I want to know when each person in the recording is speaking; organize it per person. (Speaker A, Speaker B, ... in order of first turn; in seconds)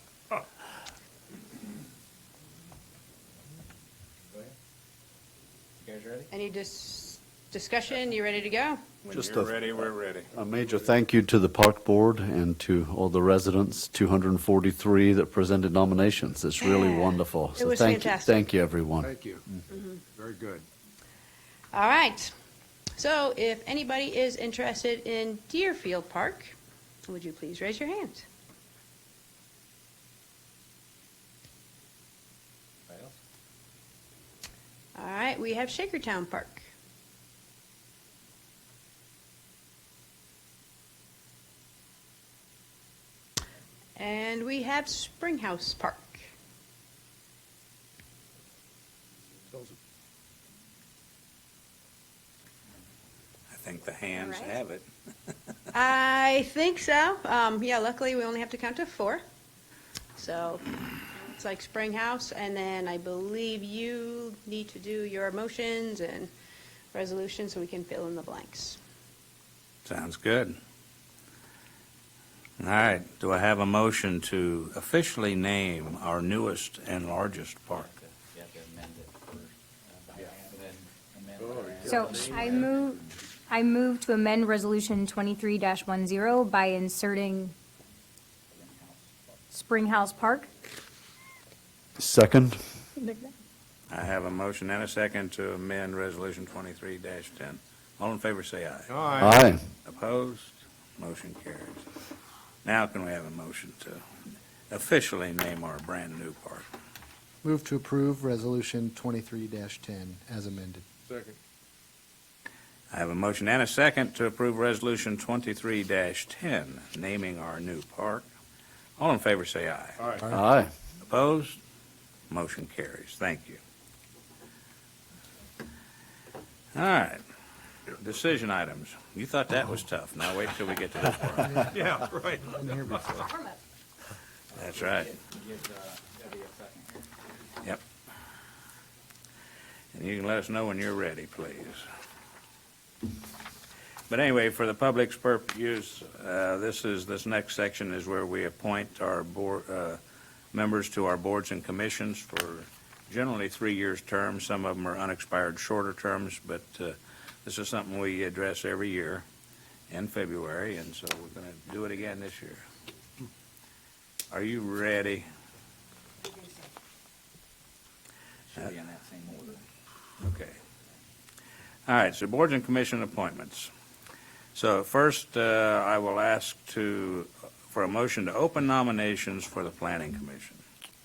Speaker A: 6.3-8.8, 16.6-18.4, 19.7-20.0, 21.7-22.3, 22.9-26.5, 27.1-28.3, 34.9-36.7, 44.0-46.3, 55.7-59.2, 60.1-66.3, 66.9-68.8
Speaker B: 9.0-10.3, 53.5-54.9, 69.8-70.6, 72.6-77.9, 93.9-99.0, 99.8-101.8, 102.6-104.0, 104.7-106.7, 112.9-118.3, 119.0-120.0, 121.0-121.6, 122.3-123.6, 126.7-127.2, 128.0-131.7, 134.5-135.2, 139.9-141.8, 144.1-150.0, 150.5-159.2, 159.9-162.6, 164.3-165.2, 170.2-170.6, 171.9-173.7, 174.5-180.6
Speaker C: 9.1-9.6, 10.3-19.1, 92.0-92.6, 99.2-99.6, 120.3-120.7
Speaker D: 19.0-19.5, 20.0-20.6, 81.4-82.7, 98.9-99.4, 111.1-111.4, 120.0-120.3, 131.6-133.2
Speaker E: 54.1-54.6, 81.8-87.5, 89.5-90.5, 93.0-93.3
Speaker F: 78.3-79.5, 80.1-82.5, 135.5-136.9, 168.6-169.6
Speaker G: 107.4-110.8